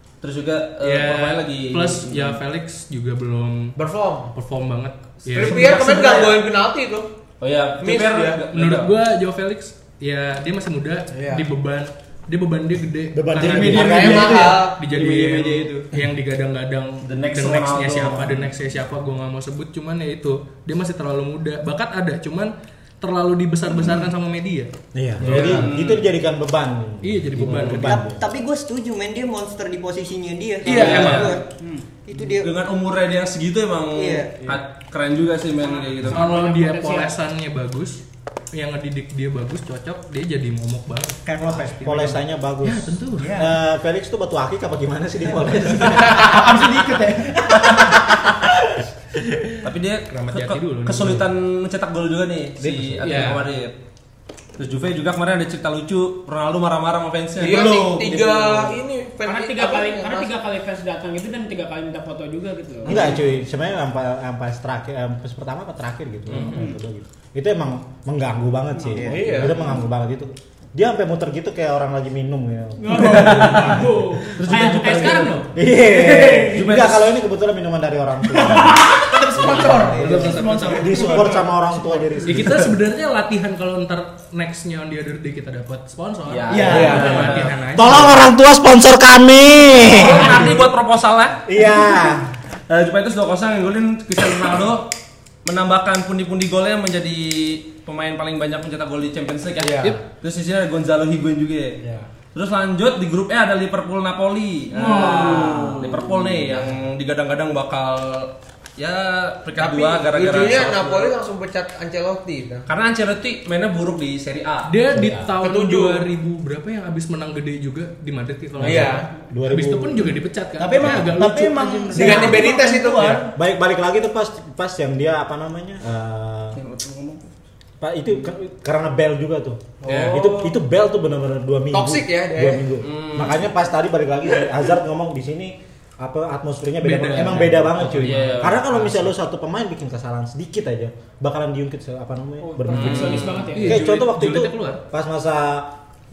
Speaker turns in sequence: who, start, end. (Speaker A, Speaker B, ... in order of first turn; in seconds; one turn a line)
Speaker A: 0.2-2.4
Speaker B: 0.8-3.7
Speaker C: 3.8-4.3
Speaker B: 4.3-5.7
Speaker A: 5.3-6.4
Speaker C: 5.3-7.1
Speaker A: 7.4-8.9
Speaker C: 7.8-8.4
Speaker B: 8.5-25.7
Speaker C: 11.1-11.5
Speaker D: 13.1-14.4
Speaker E: 13.4-15.9
Speaker C: 13.8-14.8
Speaker A: 17.1-18.5
Speaker D: 24.9-28.2
Speaker A: 25.2-26.1
Speaker B: 27.0-28.0
Speaker F: 27.8-31.4
Speaker B: 30.6-31.3
Speaker A: 30.6-31.4
Speaker G: 31.5-31.8
Speaker F: 32.0-32.5
Speaker A: 32.4-36.2
Speaker F: 33.9-34.5
Speaker G: 35.6-37.2
Speaker B: 36.1-38.0
Speaker B: 38.5-41.7
Speaker E: 41.2-42.2
Speaker D: 41.8-46.5
Speaker B: 42.6-43.3
Speaker E: 43.1-43.5
Speaker E: 45.5-48.0
Speaker D: 47.5-47.8
Speaker A: 49.6-53.7
Speaker B: 50.1-51.2
Speaker D: 52.6-53.4
Speaker B: 53.0-53.4
Speaker A: 54.6-58.8
Speaker C: 57.4-60.3
Speaker G: 59.2-63.2
Speaker D: 62.8-78.9
Speaker C: 62.9-63.1
Speaker B: 66.3-66.7
Speaker G: 66.4-66.8
Speaker E: 68.8-69.3
Speaker C: 69.0-69.6
Speaker G: 72.8-75.5
Speaker A: 74.4-75.3
Speaker G: 76.1-76.6
Speaker A: 76.4-77.0
Speaker E: 78.8-81.5
Speaker D: 79.4-82.8
Speaker B: 79.9-81.4
Speaker B: 82.2-88.2
Speaker A: 86.3-87.5
Speaker E: 86.5-87.3
Speaker C: 86.7-87.4
Speaker D: 86.7-87.0
Speaker D: 87.7-90.6
Speaker A: 89.8-91.4
Speaker D: 91.5-92.2
Speaker A: 92.7-94.9
Speaker A: 95.4-101.8
Speaker C: 99.6-100.0
Speaker C: 101.8-102.1
Speaker A: 102.3-111.1
Speaker C: 104.8-106.7
Speaker B: 104.9-105.4
Speaker G: 105.2-105.5
Speaker C: 109.6-112.7
Speaker A: 112.7-114.7
Speaker B: 114.7-122.4
Speaker D: 114.9-115.3
Speaker C: 115.4-116.0
Speaker D: 118.6-120.2
Speaker C: 118.6-119.1
Speaker E: 120.6-123.3
Speaker C: 122.0-123.2
Speaker D: 123.3-126.6
Speaker A: 126.5-127.3
Speaker D: 127.8-145.7
Speaker B: 129.8-130.3
Speaker A: 129.9-130.2
Speaker C: 129.9-130.2
Speaker C: 131.7-132.7
Speaker A: 132.8-133.4
Speaker B: 136.8-139.0
Speaker A: 137.9-138.8
Speaker G: 142.4-143.9
Speaker A: 142.7-143.6
Speaker B: 142.8-144.8